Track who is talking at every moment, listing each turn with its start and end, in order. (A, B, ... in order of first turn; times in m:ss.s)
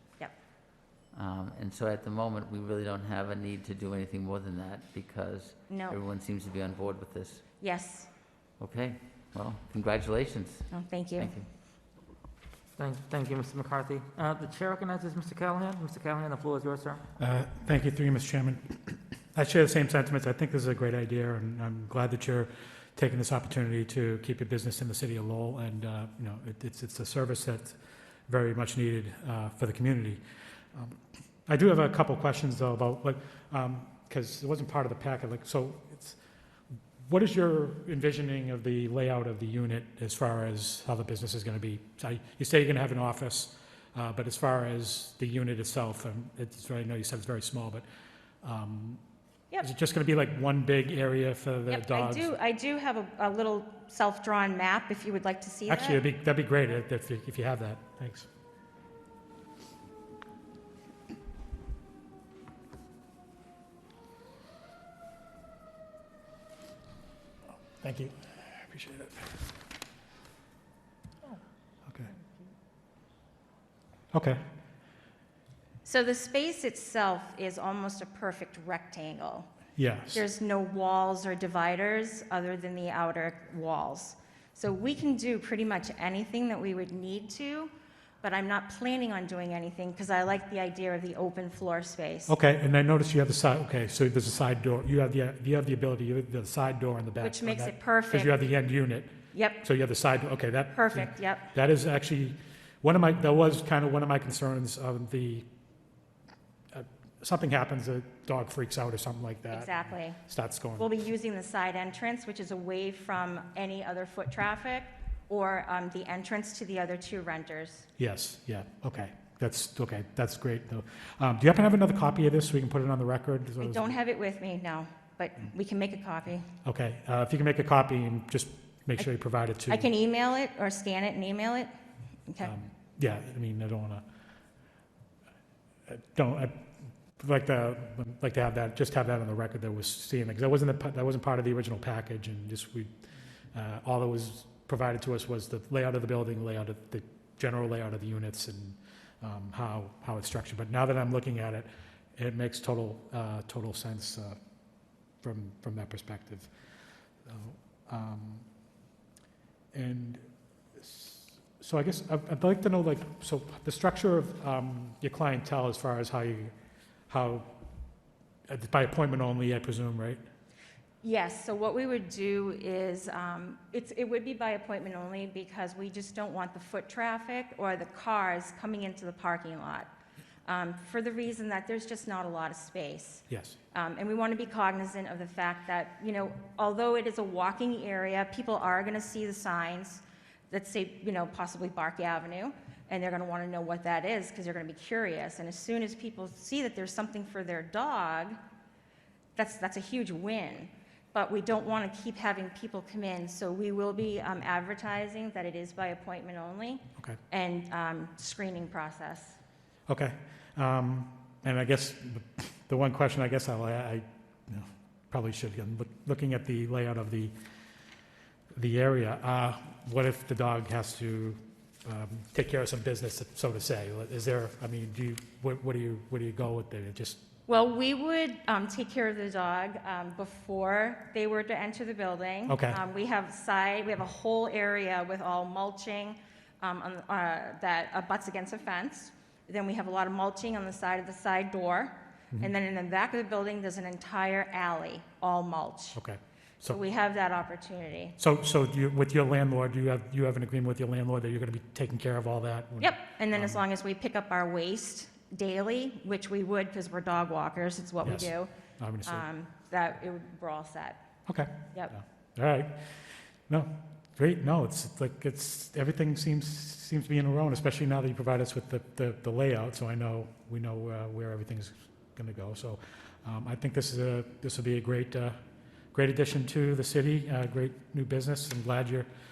0:01.1-0:07.4 A
0:05.7-0:06.0 B
0:07.6-0:08.1 B
0:08.6-0:11.5 A
0:10.7-0:11.3 B
0:12.8-0:17.0 C
0:17.2-0:27.8 D
0:28.3-0:30.2 D
0:30.7-0:36.2 D
0:37.1-0:47.8 D
0:48.4-0:49.0 D
0:49.6-0:52.4 D
0:51.7-0:56.0 B
0:55.7-0:58.3 D
1:07.8-1:09.5 D
1:14.1-1:14.4 D
1:15.8-1:19.5 B
1:19.8-1:20.2 D
1:20.1-1:27.7 B
1:28.2-1:32.3 B
1:32.3-1:45.4 D
1:37.2-1:38.3 B
1:39.3-1:39.6 B
1:40.7-1:41.5 B
1:46.7-1:49.7 D
1:49.5-1:50.2 B
1:50.2-1:50.9 D
1:50.8-1:57.8 B
1:58.0-2:03.9 D
2:03.6-2:06.5 B
2:06.6-2:09.9 D
2:09.7-2:11.7 B
2:12.3-2:12.5 B
2:12.4-2:14.0 D
2:15.9-2:16.6 D
2:17.2-2:22.9 D
2:23.5-2:34.4 D
2:35.2-2:36.5 D
2:37.2-2:38.4 D
2:39.7-2:40.2 D
2:40.8-2:46.5 D
2:47.1-2:47.5 D
2:48.5-2:50.2 D
2:51.0-2:59.9 B
3:00.5-3:18.4 B
3:03.3-3:03.6 D
3:19.4-3:29.4 B
3:29.9-3:37.3 D
3:38.5-3:47.2 D
3:47.5-4:06.0 B
3:52.5-3:52.8 D
4:05.9-4:06.8 D
4:06.7-4:08.2 B
4:08.2-4:13.6 D
4:12.8-4:18.5 B
4:18.0-4:19.2 D
4:19.0-4:21.0 B
4:21.2-4:35.4 D
4:35.9-4:39.1 D